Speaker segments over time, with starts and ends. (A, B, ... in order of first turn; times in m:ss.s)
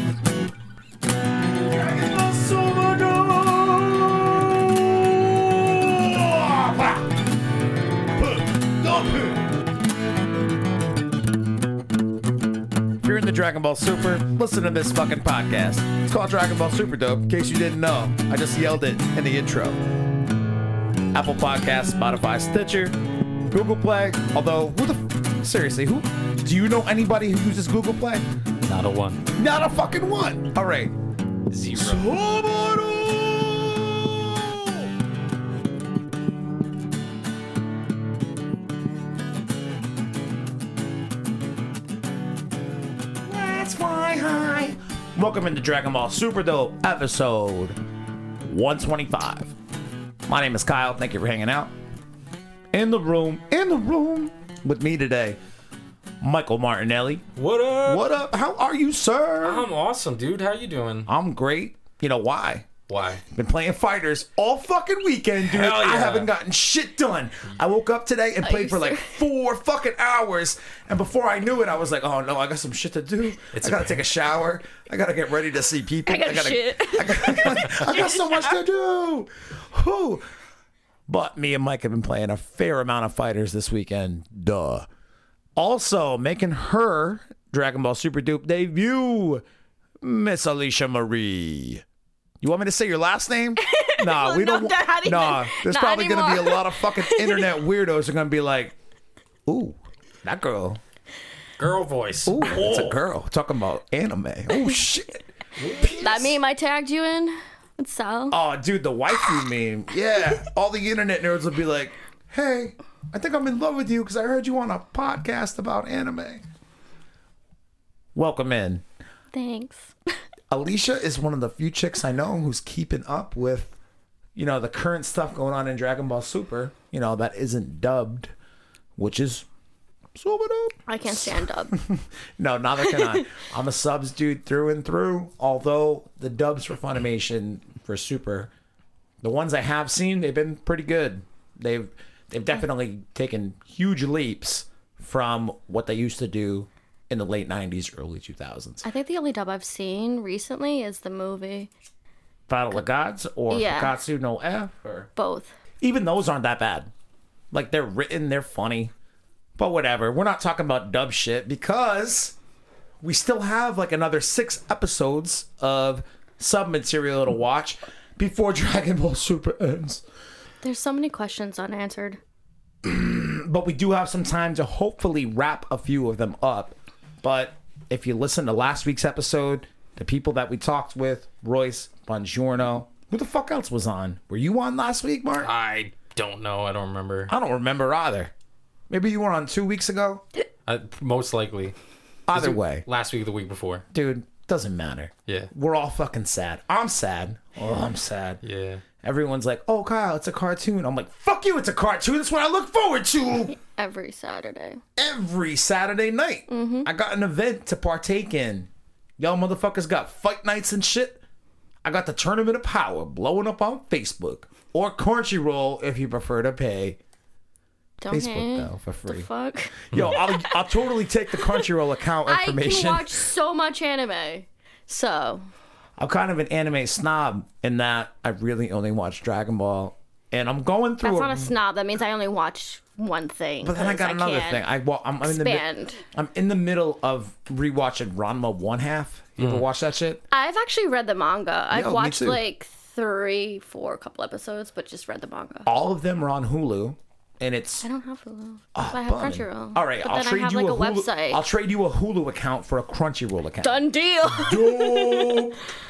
0:01.7-0:07.1 A
0:08.2-0:09.4 A
0:13.0-0:19.8 A
0:21.1-0:23.0 A
0:23.5-0:28.2 A
0:28.6-0:29.2 B
0:29.3-0:31.0 A
0:31.5-0:32.1 B
0:31.7-0:34.8 A
0:43.3-0:47.8 A
0:48.4-0:49.5 A
0:50.3-0:51.7 A
0:52.7-0:55.4 A
0:56.2-0:59.7 A
0:57.4-0:58.1 B
0:59.4-1:01.1 B
1:01.1-1:02.7 A
1:02.9-1:03.2 B
1:03.3-1:20.2 A
1:05.4-1:06.3 B
1:08.4-1:09.2 C
1:13.5-1:14.2 B
1:16.1-1:18.6 C
1:21.1-1:24.9 A
1:25.6-1:29.4 A
1:30.0-1:31.8 A
1:32.4-1:38.8 A
1:33.6-1:37.6 C
1:39.5-1:40.8 A
1:41.6-1:43.0 B
1:42.3-1:46.4 A
1:44.5-1:44.8 C
1:45.6-1:46.2 B
1:46.0-1:48.4 C
1:48.3-1:56.4 A
1:58.2-1:58.8 A
1:59.3-2:00.0 C
2:00.5-2:03.8 A
2:04.4-2:08.3 A
2:09.0-2:09.5 A
2:10.2-2:18.5 A
2:10.9-2:11.8 C
2:12.8-2:13.3 C
2:19.2-2:28.9 A
2:28.8-2:31.7 C
2:32.5-2:35.1 A
2:33.5-2:34.0 C
2:35.2-2:35.6 C
2:35.8-2:36.9 A
2:37.5-2:38.9 A
2:39.6-2:42.4 A
2:43.0-2:50.0 A
2:50.6-2:52.2 C
2:52.8-3:05.5 A
3:05.4-3:07.3 B
3:07.3-3:08.3 A
3:08.9-3:10.2 A
3:10.7-3:11.8 B
3:12.3-3:12.8 A
3:12.3-3:13.9 B
3:13.9-3:18.4 A
3:18.4-3:18.8 B
3:19.0-3:23.6 A
3:23.5-3:24.8 C
3:25.0-3:31.2 A
3:26.5-3:26.9 C
3:31.8-3:37.0 A
3:38.0-3:40.8 C
3:38.1-3:39.3 A
3:39.9-3:43.3 A
3:41.4-3:41.7 C
3:42.3-3:45.4 C
3:46.0-3:51.5 A
3:51.0-3:54.6 C
3:53.6-4:00.2 A
3:55.2-3:56.0 C
3:59.4-3:59.7 B
4:00.3-4:05.7 C
4:01.7-4:02.4 A
4:05.7-4:07.9 A
4:07.8-4:11.4 C
4:08.8-4:15.6 A
4:13.6-4:15.6 C